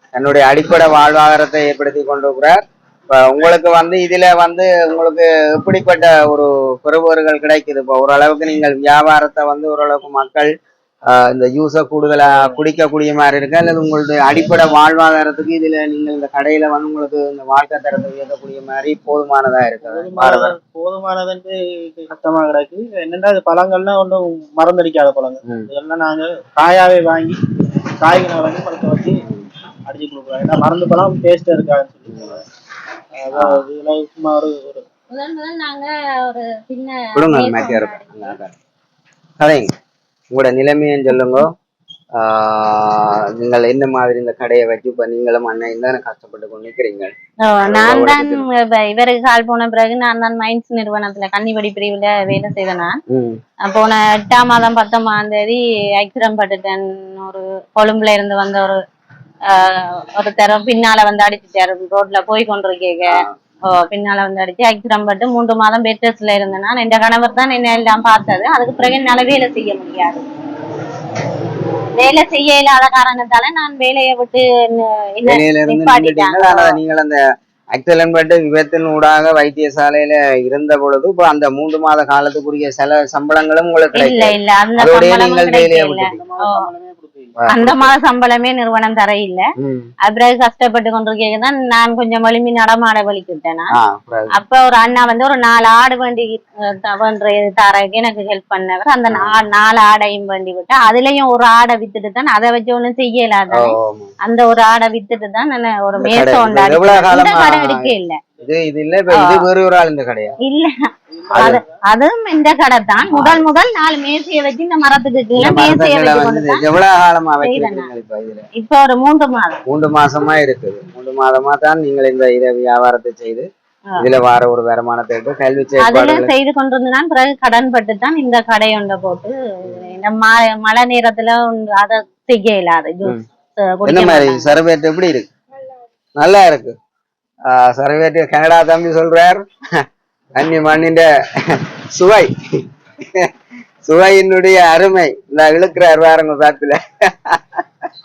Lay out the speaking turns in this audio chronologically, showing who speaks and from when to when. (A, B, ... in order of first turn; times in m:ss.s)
0:00.1-0:10.5 A
0:11.1-0:20.5 A
0:12.3-0:12.6 B
0:14.3-0:14.7 B
0:19.8-0:27.4 B
0:28.0-0:29.2 B
0:29.9-0:32.4 B
0:33.2-0:34.8 B
0:33.3-0:33.6 A
0:35.1-0:38.4 C
0:37.1-0:38.5 A
0:39.4-0:39.7 A
0:40.3-0:41.5 A
0:42.2-0:47.1 A
0:47.4-0:53.0 C
0:47.7-0:48.4 A
0:53.1-0:53.4 A
0:53.6-0:58.8 C
0:59.5-1:10.2 C
1:03.1-1:03.3 A
1:12.0-1:16.8 C
1:15.2-1:17.2 A
1:17.7-1:26.2 A
1:23.9-1:26.5 C
1:26.0-1:27.4 B
1:27.4-1:27.9 A
1:27.5-1:29.4 C
1:29.6-1:29.9 A
1:30.0-1:33.7 C
1:33.7-1:34.4 A
1:34.3-1:48.2 C
1:39.1-1:39.4 A
1:43.5-1:44.1 A
1:46.0-1:50.4 A
1:48.3-1:48.6 B
1:49.2-1:49.5 C
1:50.4-1:56.6 C
1:51.1-1:51.8 B
1:51.3-1:51.6 A
1:53.1-1:53.4 A
1:55.4-1:58.4 A
1:57.4-1:57.9 C
1:58.5-1:59.6 C
1:59.6-2:03.5 A
2:04.0-2:06.3 A
2:05.8-2:14.6 C
2:13.8-2:15.3 A
2:16.2-2:16.7 A
2:17.5-2:19.8 A
2:20.3-2:22.3 A
2:23.0-2:23.3 A
2:23.8-2:27.6 A